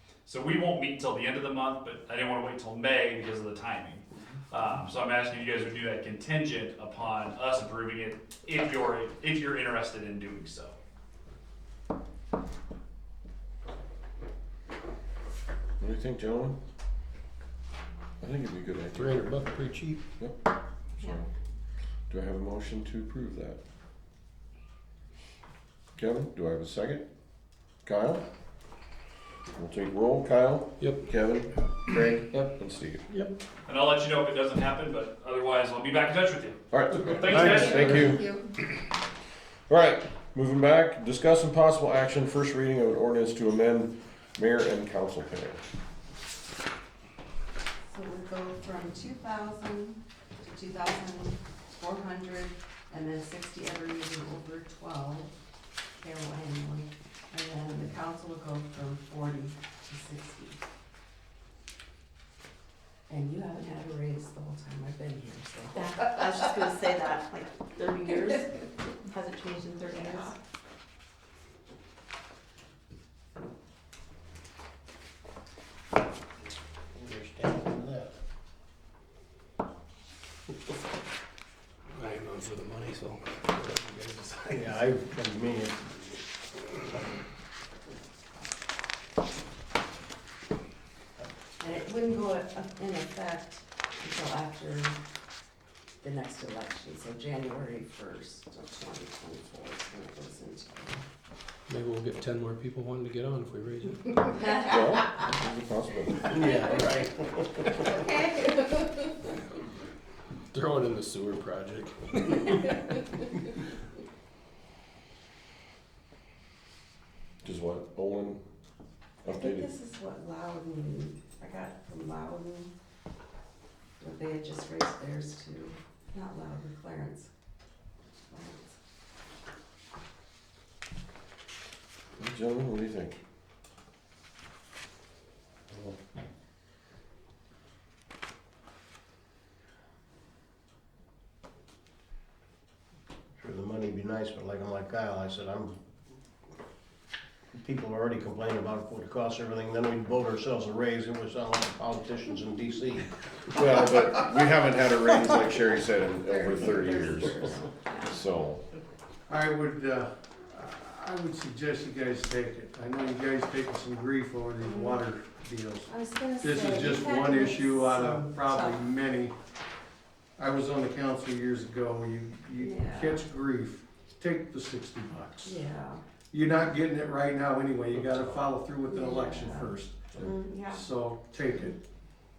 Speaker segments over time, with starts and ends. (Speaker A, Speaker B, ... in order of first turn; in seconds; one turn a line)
Speaker A: 0.2-10.8
Speaker B: 15.8-16.6
Speaker B: 18.2-19.5
Speaker C: 19.0-20.0
Speaker B: 21.0-21.3
Speaker B: 22.1-23.6
Speaker B: 25.9-27.1
Speaker B: 27.8-28.2
Speaker B: 29.5-33.0
Speaker C: 30.8-31.1
Speaker C: 33.1-33.3
Speaker A: 33.7-38.1
Speaker B: 36.7-38.3
Speaker C: 37.2-38.1
Speaker D: 37.4-38.4
Speaker B: 39.7-45.6
Speaker E: 47.9-55.3
Speaker E: 56.0-60.6
Speaker E: 63.1-66.7
Speaker D: 65.7-70.4
Speaker E: 70.0-70.3
Speaker F: 76.9-78.1
Speaker C: 81.9-84.7
Speaker F: 84.5-86.2
Speaker E: 91.6-95.0
Speaker E: 96.0-101.0
Speaker C: 101.7-104.5
Speaker E: 104.3-105.3
Speaker B: 104.6-106.3
Speaker F: 106.3-107.9
Speaker E: 107.8-109.1
Speaker C: 110.5-113.3
Speaker B: 117.4-118.4
Speaker B: 119.2-119.7
Speaker E: 119.3-122.7
Speaker E: 124.0-127.3
Speaker E: 128.3-128.8
Speaker B: 132.2-133.2
Speaker F: 143.4-145.8
Speaker F: 147.5-153.1
Speaker B: 153.5-158.6
Speaker E: 156.0-158.2
Speaker G: 159.3-169.3
Speaker E: 164.6-165.0
Speaker E: 165.9-168.8
Speaker G: 170.4-175.6
Speaker E: 172.6-173.2
Speaker E: 175.4-176.0
Speaker G: 176.3-180.2
Speaker E: 178.8-180.9
Speaker G: 180.7-181.8